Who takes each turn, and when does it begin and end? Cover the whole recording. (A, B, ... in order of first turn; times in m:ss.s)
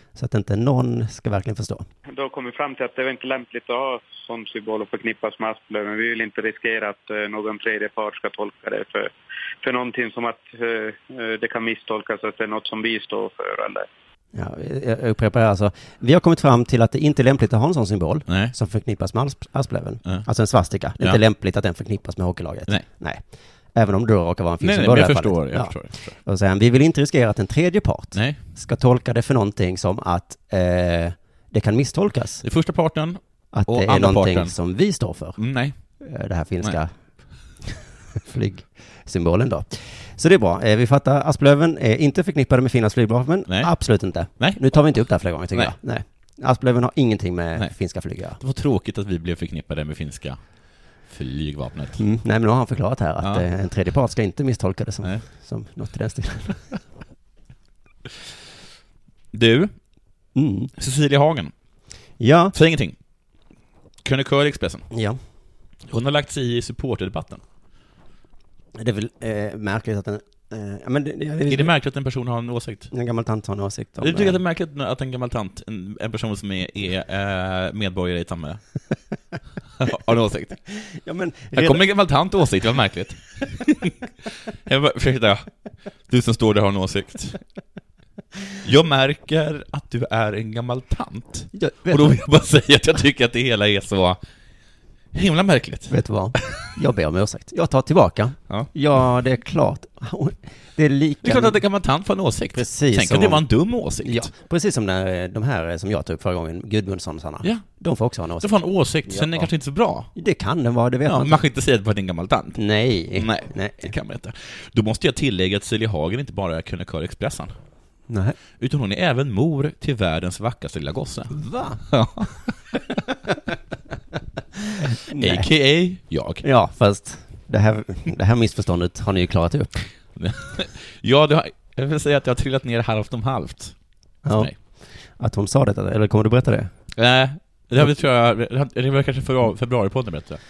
0:00.2-0:01.9 A
0:02.1-0:13.9 B
0:14.3-0:23.2 A
0:18.3-0:18.5 C
0:23.7-0:32.4 A
0:24.6-0:26.2 C
0:28.1-0:28.4 C
0:32.4-0:34.6 C
0:33.5-0:35.4 A
0:35.4-0:35.8 C
0:36.0-0:36.9 A
0:37.6-0:48.4 A
0:48.4-0:50.4 C
0:51.1-0:52.0 C
0:52.0-0:56.8 A
0:59.3-0:59.7 C
1:00.4-1:00.7 A
1:00.8-1:01.5 C
1:02.2-1:02.6 A
1:02.5-1:03.0 C
1:04.0-1:04.9 C
1:04.9-1:05.2 A
1:05.9-1:07.4 C
1:08.8-1:11.7 A
1:11.5-1:12.9 C
1:12.9-1:14.4 A
1:14.0-1:18.6 C
1:19.8-1:20.6 C
1:20.7-1:21.8 A
1:21.5-1:24.0 C
1:24.6-1:25.5 C
1:26.1-1:27.4 C
1:28.6-1:34.2 C
1:31.5-1:32.2 A
1:35.1-1:36.6 C
1:35.9-1:41.6 A
1:41.2-1:44.3 C
1:42.5-1:43.4 A
1:44.0-1:48.5 A
1:48.4-1:50.1 C
1:49.1-1:49.5 A
1:50.2-1:51.4 A
1:51.1-1:52.6 C
1:52.6-1:53.9 A
1:53.1-1:57.5 C
1:58.1-1:58.4 A
1:58.6-2:01.4 C
2:01.3-2:01.8 A
2:01.9-2:02.8 C
2:04.7-2:05.5 A
2:05.1-2:06.4 C
2:06.4-2:09.9 A
2:10.2-2:13.8 C
2:14.2-2:14.5 A
2:15.2-2:16.7 A
2:17.0-2:20.4 C